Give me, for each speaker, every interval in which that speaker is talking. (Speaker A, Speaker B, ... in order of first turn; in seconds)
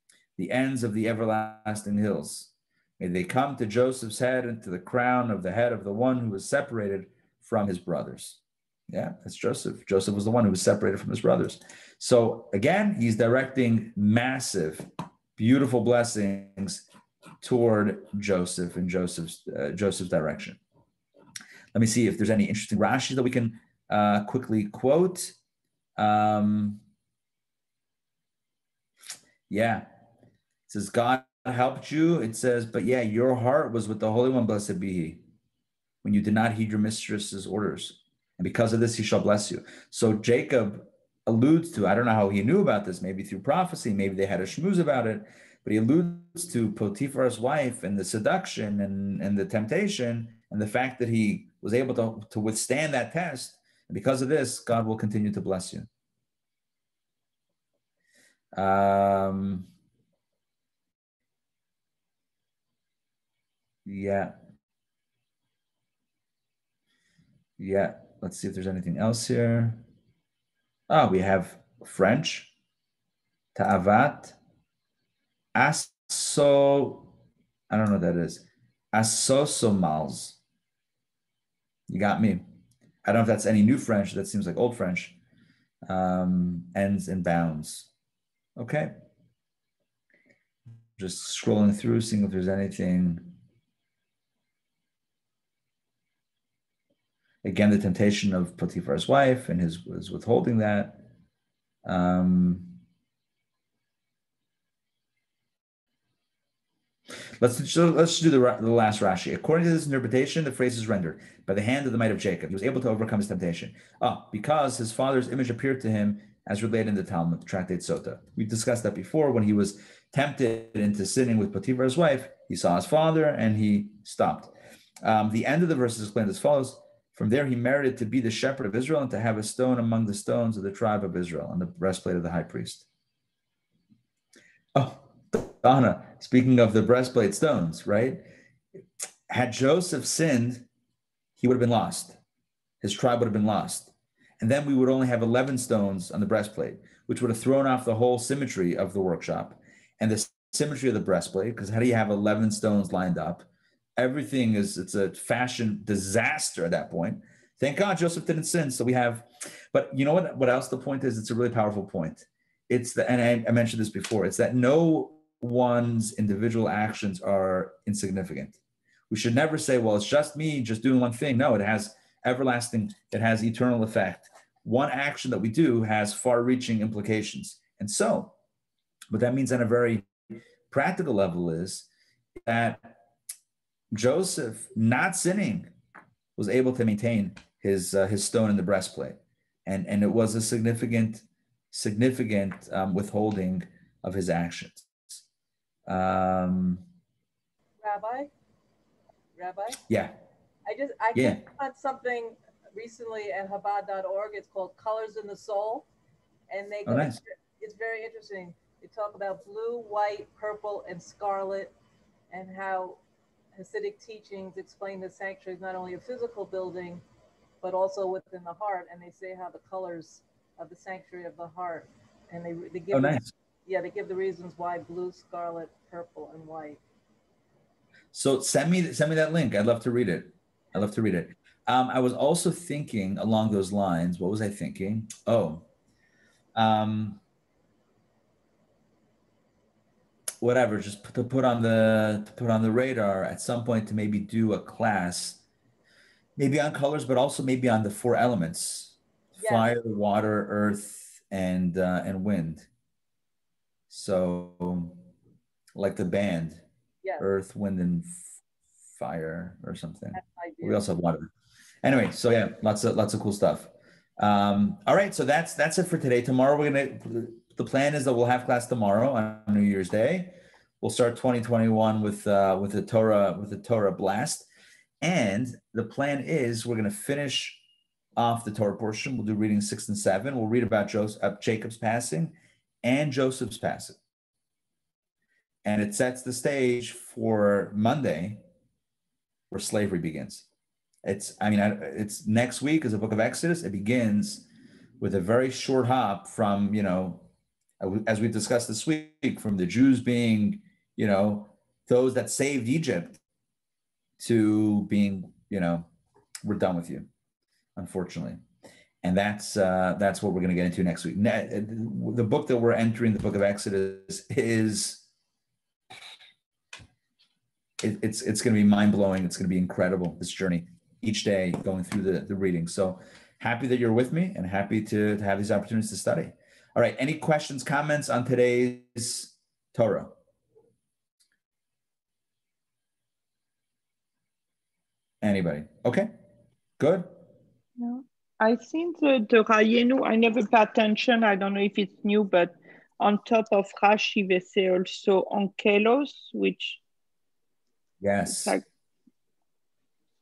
Speaker A: 0.4-16.9, 17.4-20.6, 21.7-25.3, 26.0-26.8, 29.5-29.9, 30.7-35.2, 36.0-55.9, 58.5-59.7, 63.9-64.3, 67.6-69.8, 70.9-72.5, 73.5-74.4, 75.5-77.1, 77.7-80.4, 81.9-82.4, 83.0-85.2, 85.9-87.9, 88.6-88.9, 91.0-93.3, 97.4-101.0, 101.8-102.8, 107.4-124.5, 125.0-132.9, 134.8-138.2, 139.3-140.7, 141.4-142.2, 142.8-153.5, 154.0-168.6, 169.1-178.3, 179.1-181.9, 182.4-182.9, 183.9-185.7, 186.4-195.2, 195.9-196.8, 199.9-200.1, 201.2-201.4, 206.9-207.2, 222.9-223.3, 228.1-235.7, 236.6-237.2, 240.4-245.4, 246.4-252.7, 253.9-255.0, 255.8-256.6, 257.2-258.2, 259.0-261.3, 261.8-274.5, 275.0-277.6, 278.2-284.0, 285.6-288.4, 289.5-290.5, 291.0-294.5, 295.0-297.3, 297.8-303.2, 304.2-305.9, 306.4-307.1, 307.8-308.4, 309.0-315.1, 317.8-330.1, 335.2-336.1, 336.8-337.1, 348.0-348.6
Speaker B: 197.8-198.3, 199.3-199.8, 200.7-205.9, 206.5-211.7, 212.3-213.0, 213.5-217.0, 217.6-226.8, 249.4-249.8, 260.1-260.8
Speaker C: 337.8-346.8, 348.3-348.6